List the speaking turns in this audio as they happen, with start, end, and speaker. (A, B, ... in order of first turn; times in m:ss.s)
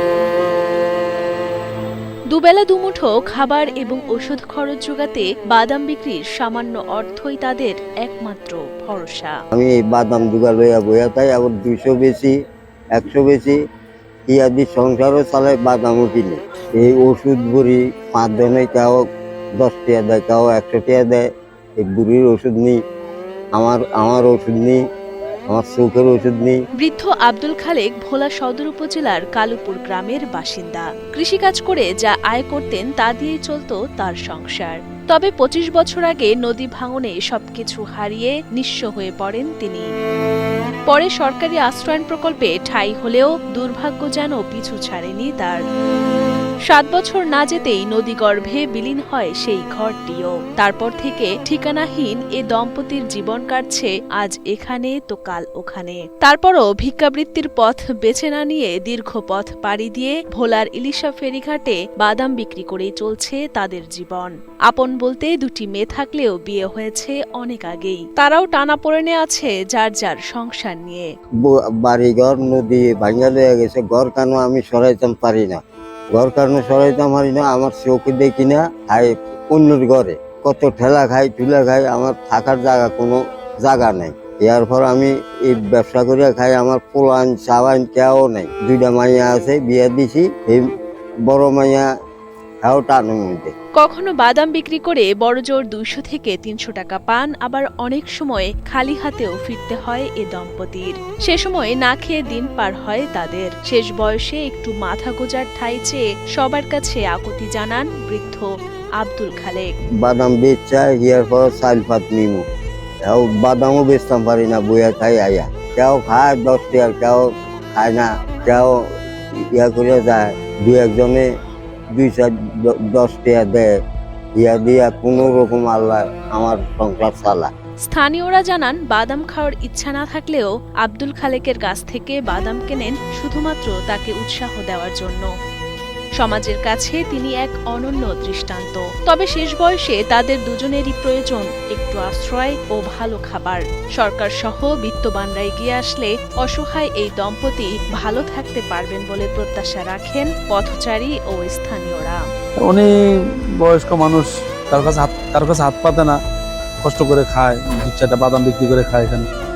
0:02.3-0:09.4 A
0:09.5-0:12.3 B
0:12.9-0:13.6 B
0:14.3-0:19.0 B
0:19.6-0:21.2 B
0:21.8-0:22.8 B
0:23.5-0:24.8 B
0:25.5-0:26.6 B
0:26.8-0:39.9 A
0:40.9-0:45.6 A
0:46.7-1:11.1 A
1:11.4-1:15.6 B
1:16.1-1:30.7 B
1:31.2-1:31.9 B
1:32.6-1:33.5 B
1:33.8-1:49.7 A
1:50.0-1:52.4 B
1:53.0-1:58.8 B
1:59.5-2:01.3 B
2:01.9-2:03.8 B
2:04.4-2:07.5 B
2:07.9-2:15.3 A
2:16.2-2:32.2 A
2:32.6-2:32.9 C
2:33.6-2:36.2 C
2:36.8-2:39.3 C